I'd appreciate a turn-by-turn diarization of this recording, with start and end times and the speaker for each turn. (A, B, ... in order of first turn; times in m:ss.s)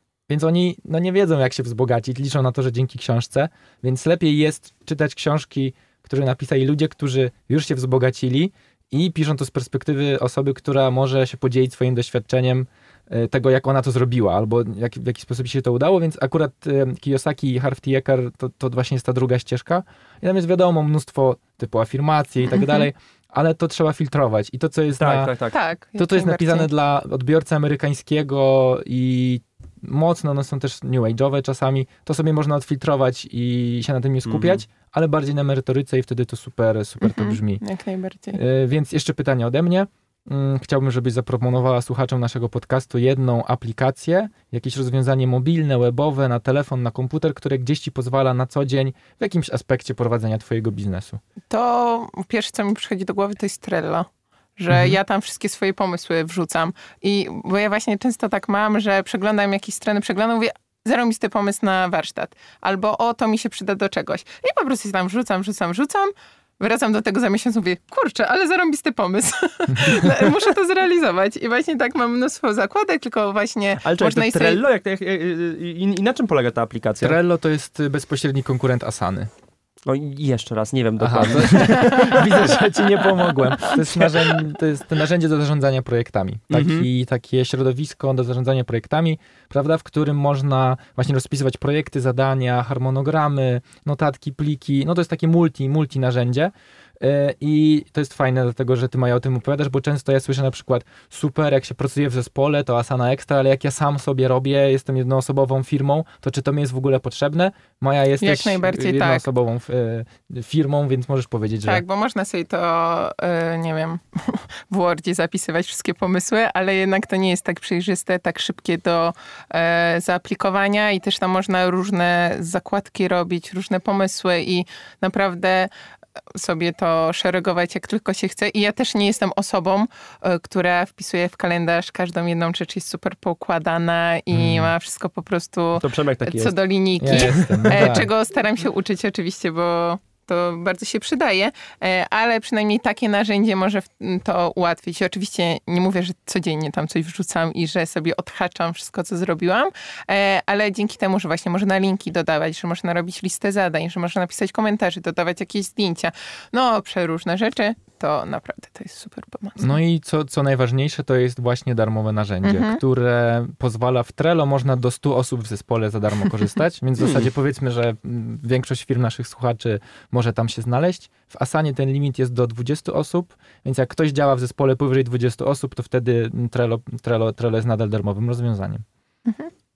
0:00.3-0:25.3 A
0:22.5-0:22.8 B
0:25.0-0:25.6 C
0:25.5-0:26.7 B
0:26.0-0:37.6 A
0:34.2-0:34.6 C
0:37.0-0:38.4 B
0:38.3-0:51.2 A
0:51.5-1:14.6 B
0:54.7-0:55.0 A
1:09.8-1:10.0 A
1:13.8-1:17.2 C
1:17.0-1:19.3 A
1:19.9-1:22.6 C
1:21.0-1:51.8 A
1:21.7-1:22.1 B
1:23.6-1:24.4 C
1:26.5-1:26.8 C
1:48.2-1:49.2 B
1:51.6-2:05.7 B
2:06.3-2:39.7 B
2:14.3-2:14.7 A
2:15.8-2:17.9 C
2:17.0-2:18.1 A
2:39.6-2:58.8 A
2:42.4-2:42.8 B
2:59.2-2:59.5 B